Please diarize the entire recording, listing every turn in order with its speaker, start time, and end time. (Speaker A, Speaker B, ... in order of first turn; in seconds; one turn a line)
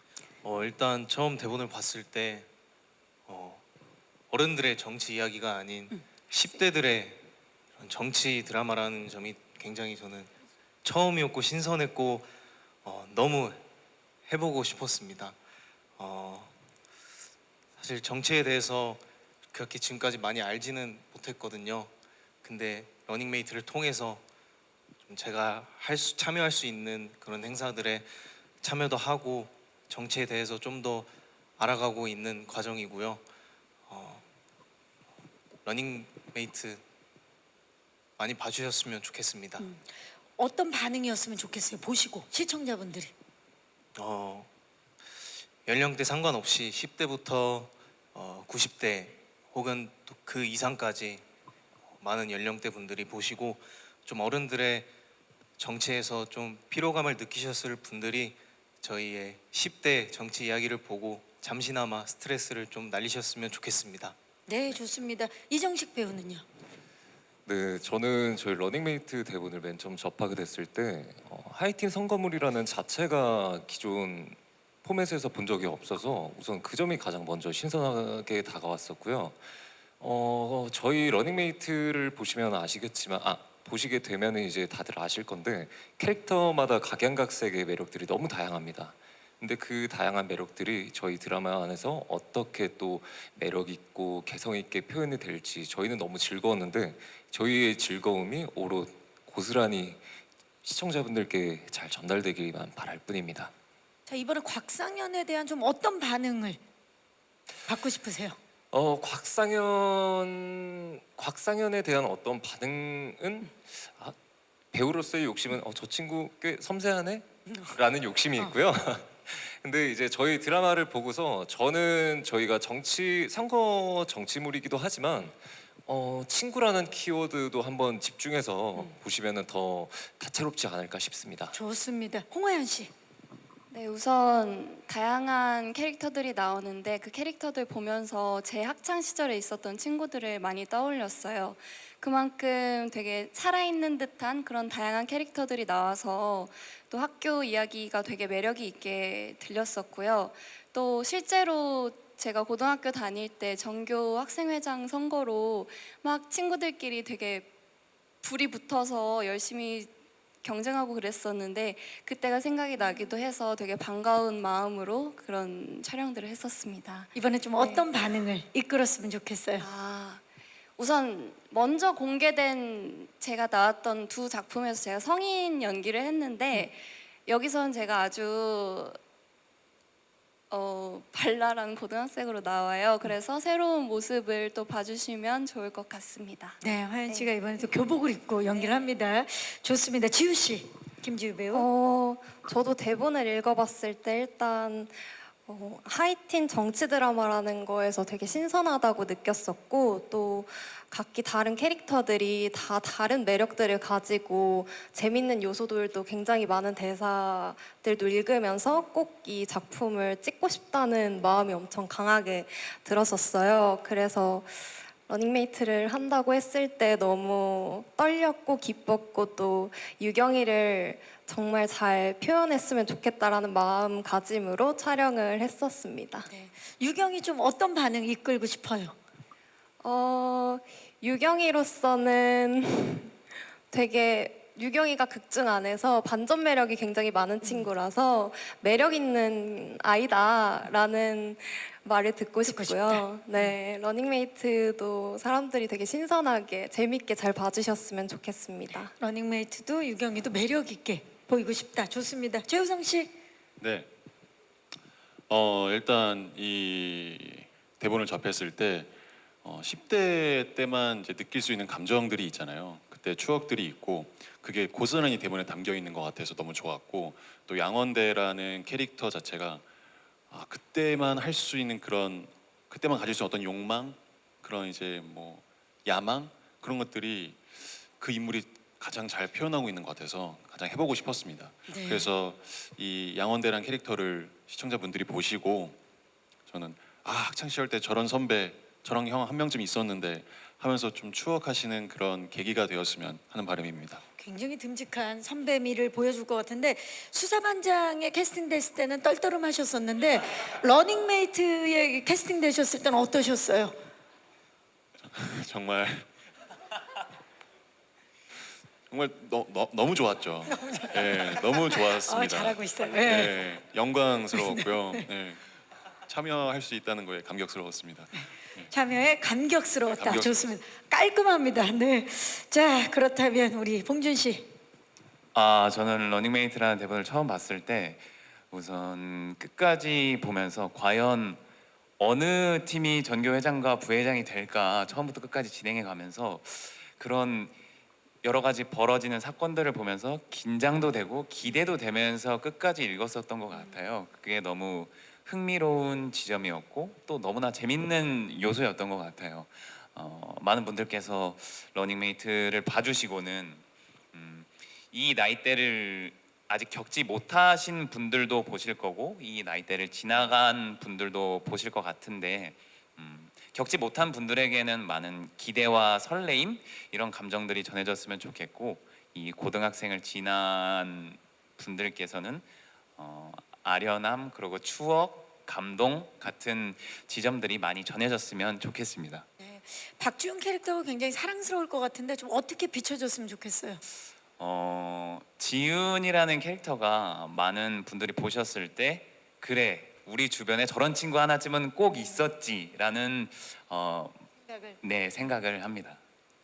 Speaker A: 0.4-2.5
Speaker A: 3.3-3.6
Speaker A: 4.3-7.2
Speaker A: 7.8-10.3
Speaker A: 10.8-12.3
Speaker A: 12.8-13.6
Speaker A: 14.3-15.3
Speaker A: 16.0-16.5
Speaker A: 17.8-21.9
Speaker A: 22.4-24.2
Speaker A: 25.1-33.2
Speaker A: 33.9-34.2
Speaker A: 35.6-36.8
Speaker A: 38.2-39.6
Speaker B: 39.6-43.1
Speaker A: 44.0-44.5
Speaker A: 45.6-51.2
Speaker A: 52.0-54.9
Speaker A: 55.6-64.2
Speaker B: 64.5-66.4
Speaker C: 67.5-100.0
Speaker C: 100.6-103.5
Speaker B: 104.1-106.6
Speaker B: 107.7-108.4
Speaker C: 108.7-114.1
Speaker C: 114.7-131.5
Speaker B: 131.5-132.9
Speaker D: 133.7-157.5
Speaker D: 158.2-159.9
Speaker D: 160.4-167.9
Speaker B: 167.1-169.7
Speaker D: 169.6-170.2
Speaker D: 170.8-178.9
Speaker D: 180.5-187.3
Speaker B: 186.6-191.7
Speaker E: 191.5-226.3
Speaker B: 226.3-229.0
Speaker E: 229.8-233.1
Speaker E: 233.7-248.9
Speaker B: 242.4-243.4
Speaker B: 249.0-253.1
Speaker F: 253.6-253.9
Speaker F: 255.3-269.6
Speaker F: 270.3-285.8
Speaker B: 281.7-282.1
Speaker F: 286.5-294.0
Speaker B: 294.2-303.7
Speaker F: 305.1-306.1
Speaker F: 308.9-315.4
Speaker B: 310.5-313.3
Speaker B: 314.3-315.0
Speaker F: 316.1-318.7
Speaker B: 318.7-324.5
Speaker F: 319.9-320.4
Speaker G: 325.3-331.4
Speaker G: 332.0-337.5
Speaker G: 338.2-353.6
Speaker G: 354.1-372.4
Speaker G: 373.0-379.2
Speaker B: 379.4-383.8
Speaker G: 384.4-394.3
Speaker B: 394.5-394.8
Speaker G: 394.8-396.0